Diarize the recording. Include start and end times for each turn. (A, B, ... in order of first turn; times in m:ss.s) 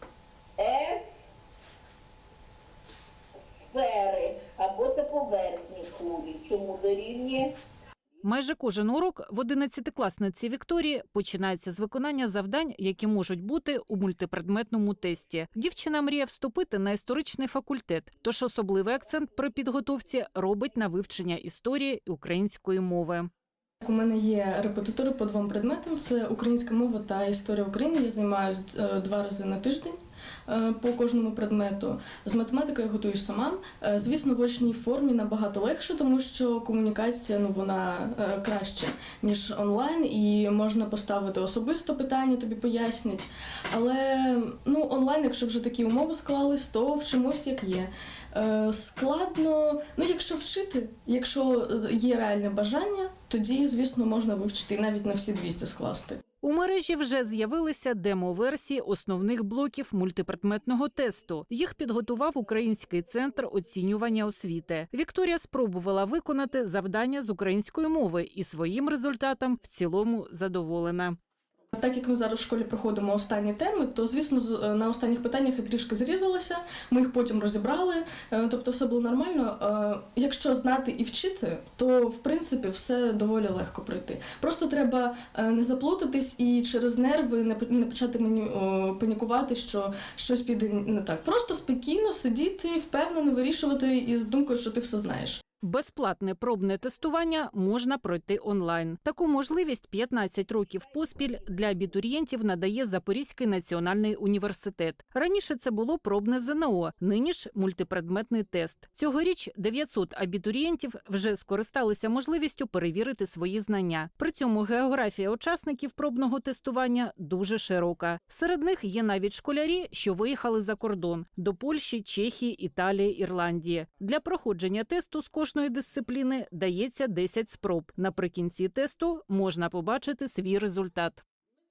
0:00.6-0:01.2 A
0:03.5-0:07.5 A
0:08.2-0:23.3 B
0:23.8-0:56.2 C
0:56.4-1:11.2 B
1:11.7-1:35.4 C
1:35.6-2:11.2 B